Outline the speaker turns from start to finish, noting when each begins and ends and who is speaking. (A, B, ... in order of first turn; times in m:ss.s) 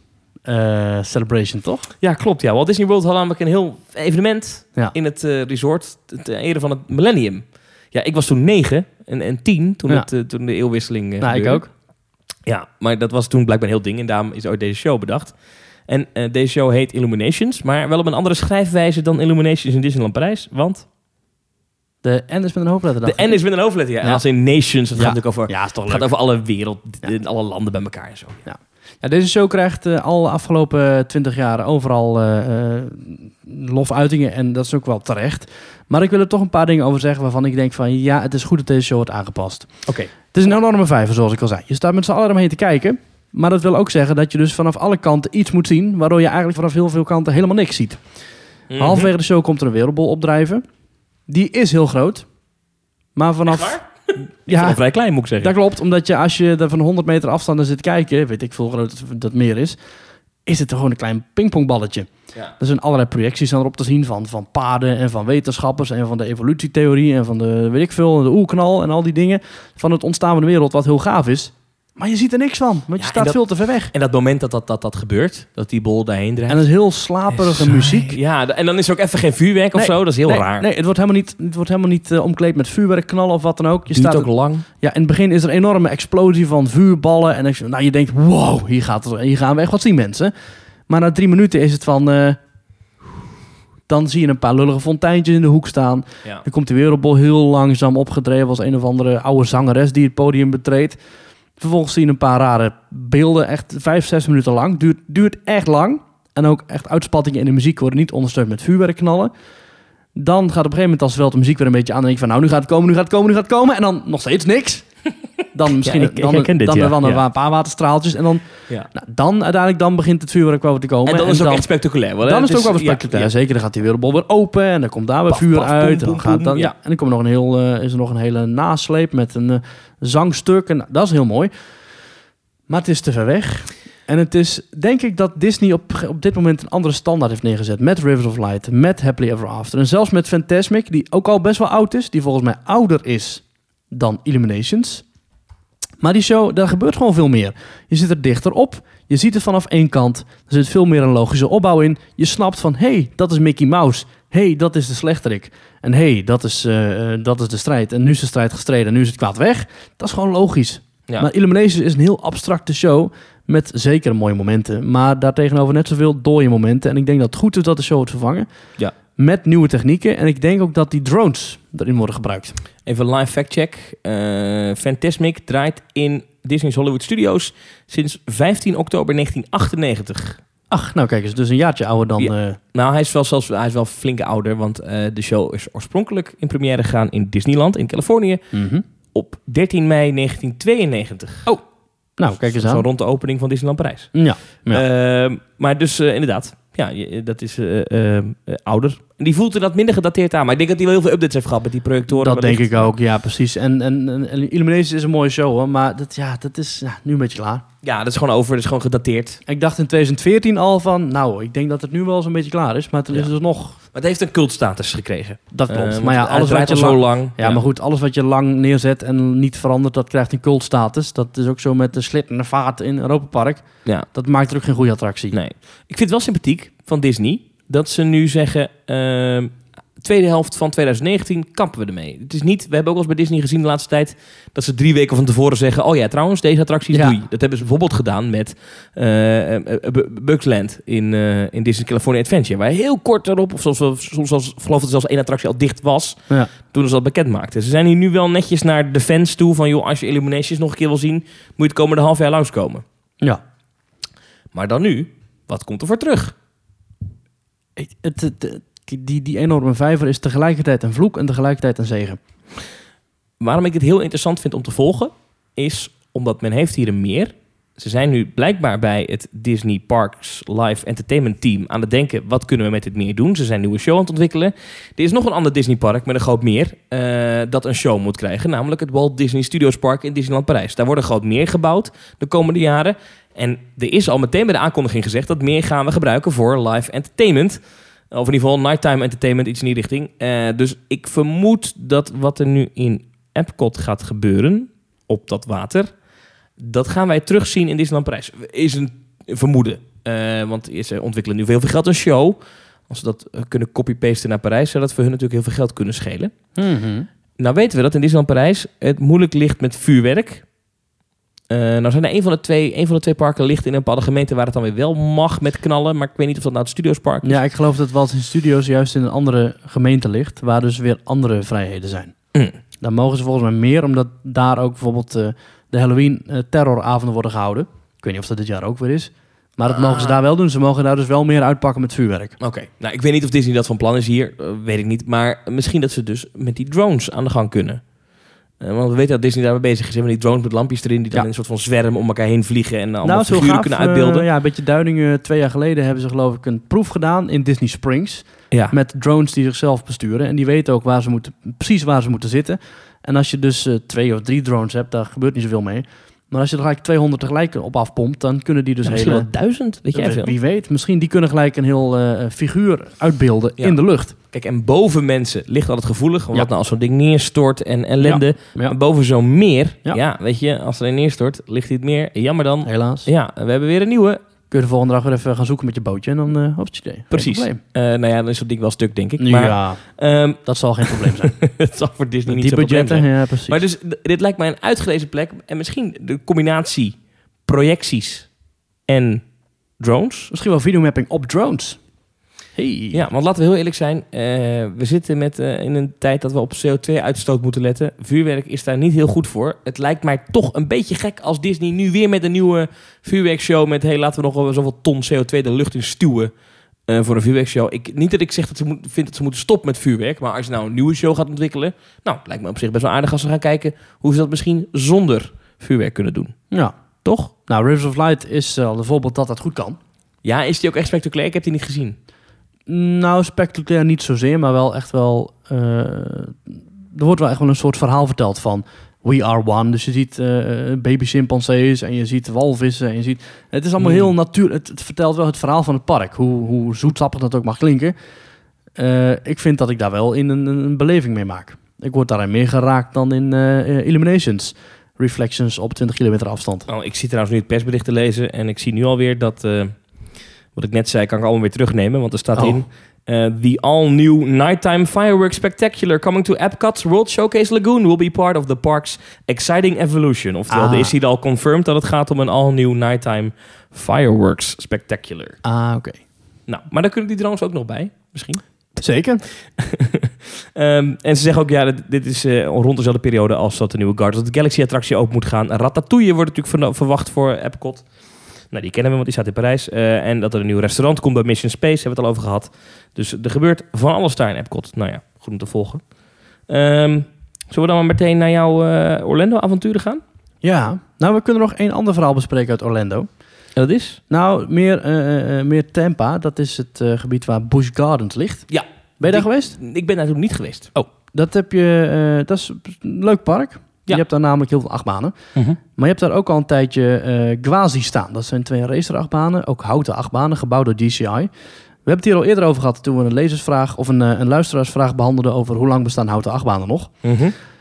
0:00.5-0:01.9 A
0:02.0-0:11.6 B
0:11.2-0:11.7 A
0:12.5-0:15.4 B
0:15.9-0:20.9 B
0:22.0-0:23.4 A
0:23.0-0:28.4 B
0:25.0-0:26.1 A
0:28.5-0:39.7 A
0:39.9-0:40.1 B
0:40.3-0:48.0 A
0:48.7-0:49.1 B
0:48.8-0:50.6 A
0:51.3-0:52.3 A
0:53.2-0:53.8 A
0:53.5-0:55.5 B
0:54.5-0:54.8 A
0:55.4-0:59.8 A
1:00.5-1:13.9 A
1:13.0-1:13.4 B
1:13.9-1:16.6 B
1:16.5-1:18.2 A
1:17.3-1:20.7 B
1:19.7-1:24.3 A
1:23.9-1:24.6 B
1:24.8-1:30.3 A
1:30.9-1:32.4 A
1:33.9-1:41.0 A
1:41.6-1:49.3 A
1:50.2-1:54.8 A
1:55.5-2:01.7 A
1:55.7-1:57.2 B
2:01.0-2:03.3 B
2:02.2-2:11.5 A
2:05.3-2:06.7 B
2:12.7-2:25.0 A
2:26.0-2:48.5 A
2:49.2-2:52.6 A
2:52.9-3:00.4 B
3:00.7-3:02.6 A
3:02.2-3:08.4 B
3:08.5-3:08.8 A
3:09.1-3:11.5 B
3:12.2-3:12.8 A
3:12.4-3:22.9 B
3:14.1-3:14.8 A
3:22.1-3:27.6 A
3:27.8-3:29.4 B
3:29.5-3:33.8 A
3:33.9-3:37.6 B
3:35.5-3:45.4 A
3:45.3-4:12.8 B
3:56.9-3:57.2 A
4:14.5-4:16.3 B
4:17.8-4:22.2 A
4:23.4-4:47.6 B
4:48.1-4:55.9 B
4:56.6-5:02.4 B
5:02.9-5:06.3 B
5:06.6-5:07.1 A
5:07.4-5:10.5 B
5:11.5-5:17.4 B
5:17.2-5:22.1 A
5:22.8-5:32.4 A
5:29.8-5:30.2 B
5:32.4-5:37.8 B
5:38.6-5:44.3 B
5:43.0-5:59.3 A
5:58.8-6:00.4 B
5:59.9-6:04.1 A
6:04.3-6:14.2 B
6:08.0-6:08.8 A
6:12.6-6:13.1 A
6:14.5-6:17.6 A
6:17.1-6:28.3 B
6:19.2-6:19.8 A
6:20.4-6:21.4 A
6:22.3-6:23.6 A
6:28.9-6:29.2 B
6:29.8-6:30.3 B
6:30.3-6:31.8 A
6:32.6-6:33.0 A
6:32.9-6:46.3 B
6:46.9-6:56.4 B
6:57.0-6:57.3 B
6:57.4-6:59.8 A
7:00.2-7:02.0 B
7:02.7-7:18.0 A
7:13.8-7:14.1 B
7:18.8-7:26.7 A
7:26.7-7:29.8 B
7:30.5-7:45.4 B
7:40.5-7:41.0 A
7:45.4-7:46.0 A
7:46.5-7:48.4 B
7:48.8-7:49.2 A
7:49.6-7:57.9 B
7:58.5-8:05.8 B
8:06.5-8:10.0 B
8:10.4-8:13.1 A
8:13.6-8:14.0 B
8:14.1-8:18.5 A
8:18.5-8:20.7 B
8:19.0-8:19.6 A
8:20.8-8:25.1 A
8:25.7-8:31.3 A
8:31.8-8:37.0 A
8:37.0-8:37.3 B